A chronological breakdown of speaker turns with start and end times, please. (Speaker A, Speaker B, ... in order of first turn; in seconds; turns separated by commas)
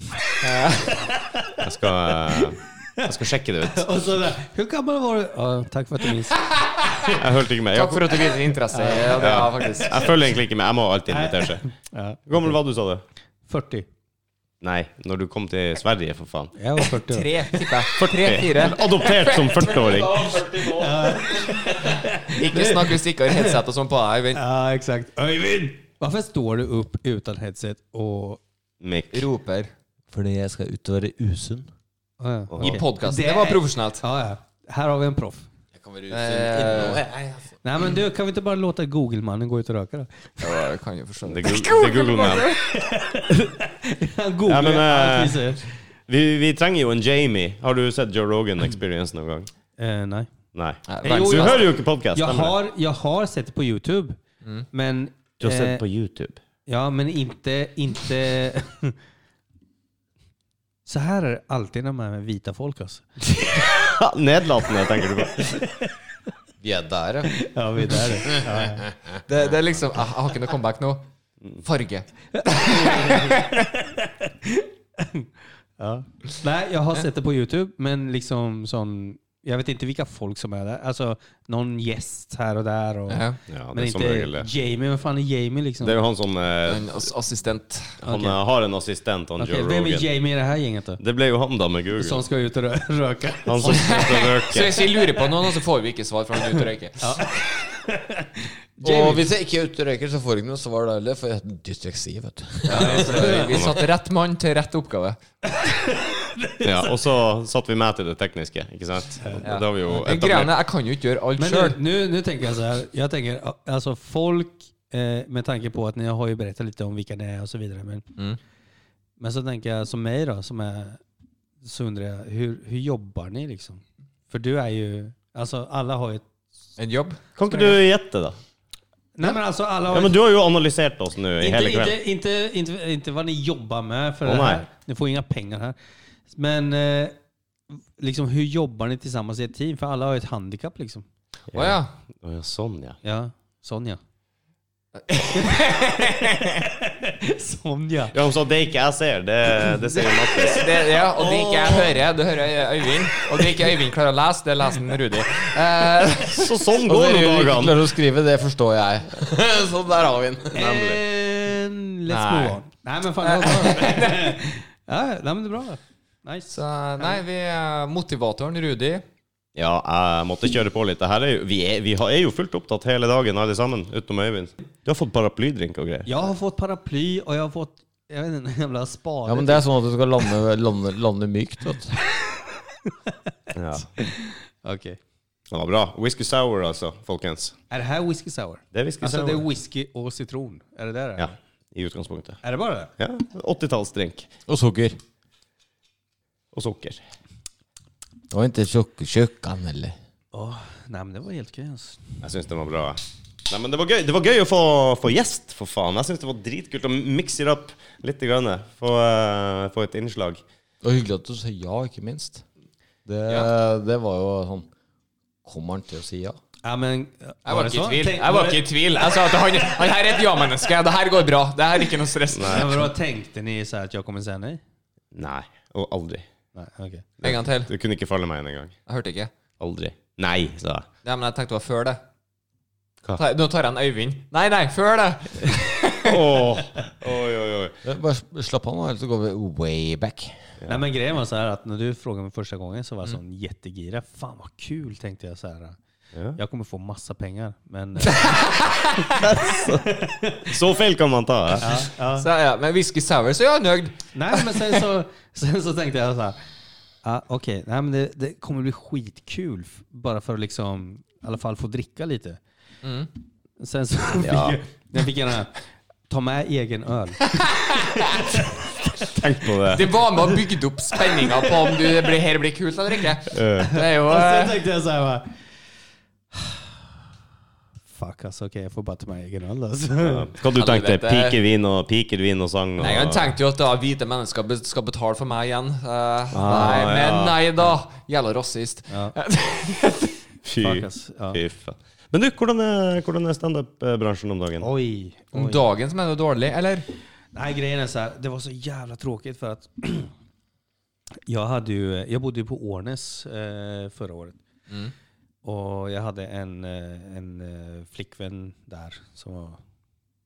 Speaker A: 0.4-0.9, Speaker B: 1.0-1.6, Speaker C: 1.6-3.9, Speaker B: 3.6-6.4, Speaker C: 7.1-8.3, Speaker A: 7.7-10.2, Speaker B: 8.7-9.2, Speaker C: 9.1-11.6, Speaker B: 11.1-12.5, Speaker C: 12.3-13.0, Speaker B: 13.5-13.9, Speaker C: 14.6-16.5, Speaker B: 16.6-17.7, Speaker A: 17.0-20.0, Speaker C: 18.0-20.3, Speaker D: 19.7-21.6, Speaker B: 20.7-23.5, Speaker A: 22.3-24.4, Speaker B: 24.4-28.4, Speaker C: 28.8-29.3, Speaker A: 29.1-29.7, Speaker D: 30.1-31.7, Speaker B: 32.2-35.5, Speaker C: 32.5-32.8, Speaker A: 32.6-34.0, Speaker D: 35.8-37.5, Speaker A: 36.1-37.0, Speaker B: 37.6-40.6, Speaker A: 40.4-42.7, Speaker C: 41.2-42.5, Speaker B: 42.7-45.7, Speaker C: 44.5-49.5, Speaker B: 49.8-50.3, Speaker C: 50.5-52.5, Speaker A: 50.9-51.7, Speaker B: 51.0-54.2, Speaker B: 54.7-55.8, Speaker C: 55.4-56.4, Speaker B: 56.7-59.0, Speaker B: 60.9-63.1, Speaker C: 63.7-65.6, Speaker B: 65.4-65.9, Speaker D: 66.6-67.4, Speaker B: 67.3-68.8, Speaker D: 68.5-68.7, Speaker A: 69.3-71.0, Speaker A: 71.6-73.7, Speaker B: 72.4-86.0, Speaker A: 83.1-83.4, Speaker C: 83.5-84.5, Speaker C: 85.8-87.0, Speaker A: 86.7-88.0, Speaker C: 88.0-90.1, Speaker B: 88.0-88.4, Speaker B: 89.4-91.0, Speaker C: 91.0-92.2, Speaker B: 92.0-94.1, Speaker C: 93.5-94.8, Speaker A: 93.6-97.2, Speaker B: 97.0-99.2, Speaker D: 98.8-103.3, Speaker A: 102.7-105.2, Speaker B: 102.7-103.6, Speaker C: 103.5-103.8, Speaker B: 105.5-106.9, Speaker C: 106.6-110.5, Speaker A: 109.4-111.8, Speaker B: 111.4-118.1, Speaker B: 119.2-121.0, Speaker B: 121.6-126.2, Speaker A: 126.8-127.2, Speaker C: 127.4-128.3, Speaker B: 129.2-130.2, Speaker C: 129.9-132.0, Speaker B: 131.4-135.8, Speaker C: 134.2-134.7, Speaker B: 136.3-137.2, Speaker B: 138.0-141.0, Speaker C: 141.5-143.0, Speaker A: 141.5-141.9, Speaker B: 143.0-144.0, Speaker A: 145.0-146.6, Speaker B: 145.4-148.2, Speaker C: 148.1-150.8, Speaker A: 150.4-156.6, Speaker B: 151.3-151.6, Speaker C: 156.3-157.9, Speaker D: 156.8-160.6, Speaker B: 160.6-167.2, Speaker C: 160.6-161.0, Speaker A: 162.1-162.6, Speaker A: 163.2-164.4, Speaker A: 166.5-169.0, Speaker C: 169.6-176.1, Speaker B: 176.1-179.7, Speaker D: 179.3-182.0, Speaker B: 182.9-183.1, Speaker C: 183.5-183.9, Speaker B: 184.0-185.0, Speaker C: 185.5-187.6, Speaker B: 187.7-191.4, Speaker C: 188.7-189.4, Speaker C: 191.2-192.4, Speaker B: 192.4-192.9, Speaker C: 193.0-194.3, Speaker D: 194.5-195.0, Speaker C: 196.5-197.0, Speaker D: 198.3-199.9, Speaker B: 200.3-202.0, Speaker C: 202.2-210.4, Speaker D: 210.8-212.4, Speaker D: 213.1-214.7, Speaker A: 213.2-213.5, Speaker D: 215.4-216.4, Speaker B: 216.6-218.7, Speaker A: 217.5-222.9, Speaker C: 222.3-222.8, Speaker B: 222.5-224.6, Speaker C: 225.1-226.2, Speaker B: 226.6-227.1, Speaker C: 227.2-228.7, Speaker A: 227.2-227.7, Speaker A: 228.9-229.3, Speaker C: 229.6-230.9, Speaker A: 231.0-232.0, Speaker A: 233.2-236.4, Speaker C: 236.1-237.8, Speaker D: 237.8-240.4, Speaker B: 240.7-245.8, Speaker B: 246.4-248.4, Speaker A: 248.1-249.1, Speaker C: 249.2-249.9, Speaker B: 249.5-250.5, Speaker C: 250.4-251.7, Speaker A: 251.6-254.8, Speaker B: 251.6-252.3, Speaker B: 254.1-256.4, Speaker B: 257.0-262.4, Speaker A: 262.8-263.1, Speaker B: 263.6-265.6, Speaker C: 264.2-264.6, Speaker B: 266.1-269.2, Speaker C: 269.1-269.9, Speaker A: 269.7-274.6, Speaker C: 273.3-273.7, Speaker B: 273.6-275.3, Speaker B: 276.3-276.6, Speaker B: 277.9-280.3, Speaker C: 280.0-283.3, Speaker A: 280.5-281.4, Speaker A: 282.8-290.1, Speaker B: 286.3-286.9, Speaker C: 286.3-287.4, Speaker C: 290.4-294.7, Speaker B: 290.6-291.4, Speaker B: 294.6-295.6, Speaker A: 295.3-296.9, Speaker B: 297.3-300.1, Speaker B: 301.3-304.4, Speaker B: 305.4-309.6